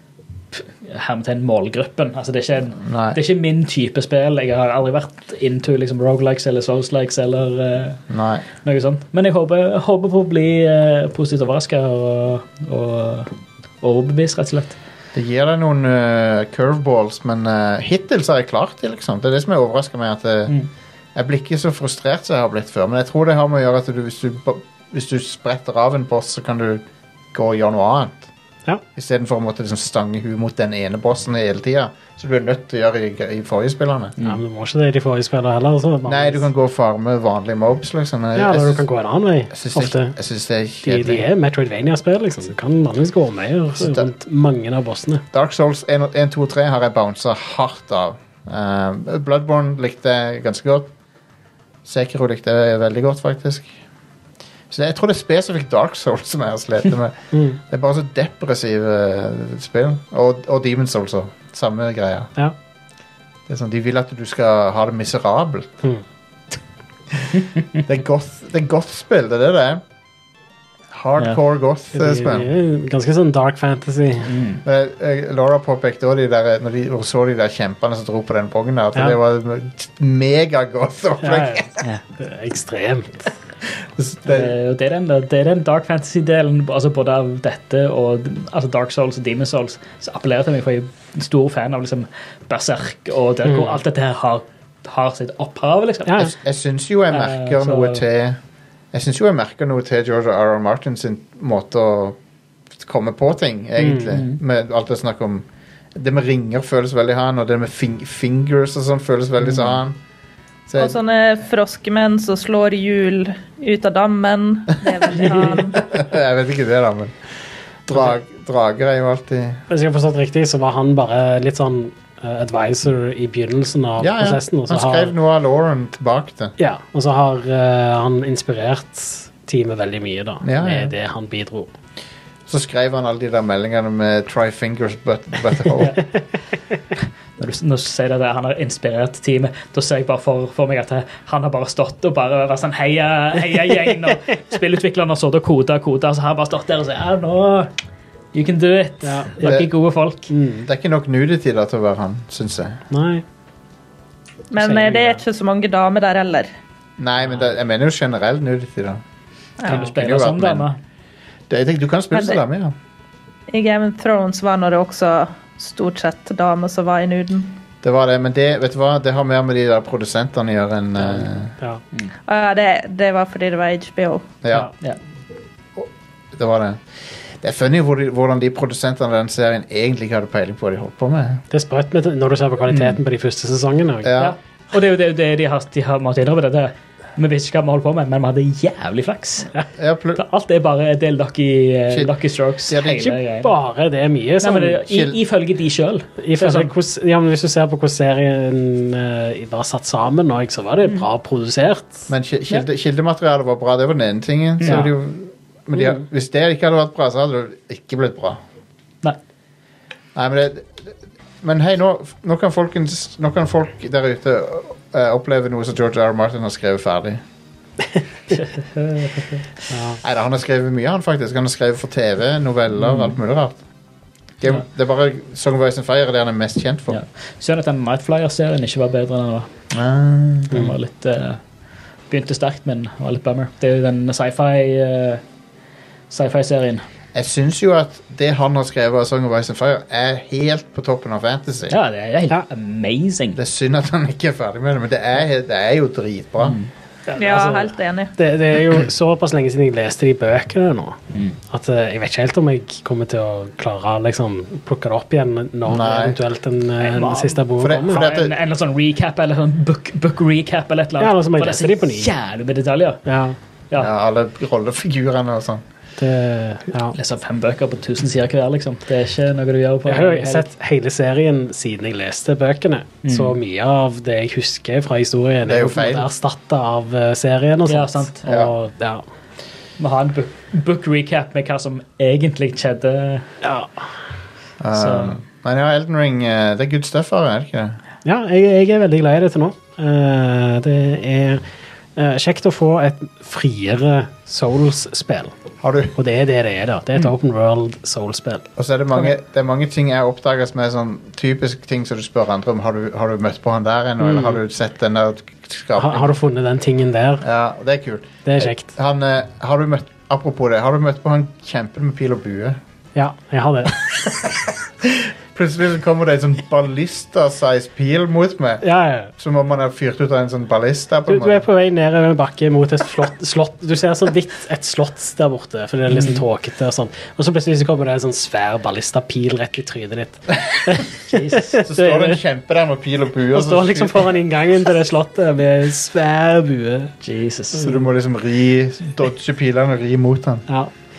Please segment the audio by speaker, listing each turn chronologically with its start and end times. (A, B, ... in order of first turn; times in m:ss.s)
0:00.5-0:08.0 A
0:02.8-0:03.2 B
0:08.1-0:08.4 B
0:08.6-0:14.8 A
0:15.1-0:20.5 B
0:21.1-0:28.3 B
0:28.9-0:34.2 B
0:34.2-0:36.4 C
0:36.0-0:38.8 B
0:38.4-0:40.1 C
0:39.5-0:41.3 B
0:40.8-0:45.2 C
0:43.8-0:44.1 B
0:45.3-0:50.9 B
0:51.8-0:53.7 B
0:54.7-1:02.3 B
0:57.3-0:57.6 C
1:03.5-1:05.8 B
1:07.1-1:09.8 B
1:10.9-1:12.5 B
1:11.9-1:14.3 C
1:14.3-1:14.6 A
1:14.6-1:21.8 B
1:21.2-1:23.3 C
1:23.9-1:24.5 B
1:24.2-1:36.3 A
1:33.4-1:33.8 C
1:36.0-1:36.3 C
1:36.3-1:38.4 B
1:37.1-1:38.0 A
1:38.9-1:42.2 B
1:42.8-1:50.0 B
1:43.8-1:44.2 C
1:44.1-1:44.4 A
1:50.7-1:51.0 B
1:50.8-1:55.8 D
1:55.8-1:57.2 B
1:57.9-1:59.6 B
1:59.7-2:05.1 C
2:04.0-2:06.6 B
2:06.6-2:11.7 C
2:10.4-2:10.9 B
2:12.5-2:16.0 B
2:17.4-2:27.7 A
2:28.3-2:30.3 A
2:29.0-2:29.5 C
2:29.4-2:29.7 B
2:30.3-2:30.7 C
2:30.6-2:32.8 B
2:32.9-2:33.2 C
2:34.5-2:36.5 D
2:34.6-2:35.2 C
2:37.0-2:39.0 B
2:39.6-2:40.8 A
2:39.7-2:40.6 B
2:41.5-2:42.7 B
2:42.1-2:42.4 D
2:43.5-2:47.6 D
2:47.8-2:51.5 B
2:51.1-2:51.8 C
2:52.3-2:54.3 D
2:54.4-2:54.7 B
2:55.8-2:56.8 B
2:57.4-3:01.4 B
3:01.5-3:04.1 C
3:02.7-3:03.0 A
3:04.0-3:04.3 B
3:04.2-3:09.5 A
3:09.7-3:10.2 B
3:10.2-3:13.5 A
3:12.7-3:13.2 B
3:13.4-3:14.8 C
3:14.4-3:16.7 A
3:14.8-3:15.2 B
3:16.2-3:22.1 C
3:22.1-3:28.4 B
3:24.6-3:24.9 A
3:24.6-3:24.9 C
3:30.1-3:37.2 B
3:38.3-3:39.4 A
3:39.7-3:40.0 C
3:40.0-3:43.6 B
3:42.8-3:43.1 A
3:44.4-3:47.0 B
3:46.9-3:49.5 A
3:49.7-3:50.7 B
3:50.5-3:51.4 A
3:52.1-3:55.2 A
3:56.1-3:56.8 A
3:57.1-4:01.8 B
4:01.7-4:03.4 A
4:03.3-4:06.6 B
4:06.4-4:07.7 A
4:07.2-4:08.1 D
4:08.2-4:18.0 C
4:11.1-4:11.4 A
4:15.6-4:16.2 B
4:16.8-4:23.0 A
4:17.6-4:18.3 B
4:21.0-4:22.1 C
4:23.0-4:23.4 C
4:23.7-4:25.6 B
4:26.0-4:26.9 C
4:26.9-4:30.5 A
4:29.9-4:39.0 C
4:33.0-4:33.4 A
4:35.4-4:36.1 B
4:37.6-4:38.4 A
4:38.2-4:38.5 B
4:39.8-4:43.3 A
4:43.4-4:43.7 C
4:44.6-4:47.8 B
4:44.7-4:45.2 A
4:48.0-4:51.4 C
4:52.0-4:55.3 C
4:55.6-4:56.0 B
4:56.0-4:58.5 C
4:58.6-5:06.1 B
5:04.0-5:04.4 C
5:05.8-5:07.2 C
5:07.2-5:12.6 B
5:08.2-5:08.7 C
5:12.9-5:13.9 C
5:13.9-5:18.6 B
5:18.6-5:19.1 C
5:19.2-5:21.4 B
5:21.1-5:32.2 C
5:25.9-5:26.2 A
5:31.1-5:31.6 A
5:31.5-5:34.2 B
5:33.3-5:36.9 C
5:37.0-5:37.7 A
5:37.6-5:40.5 B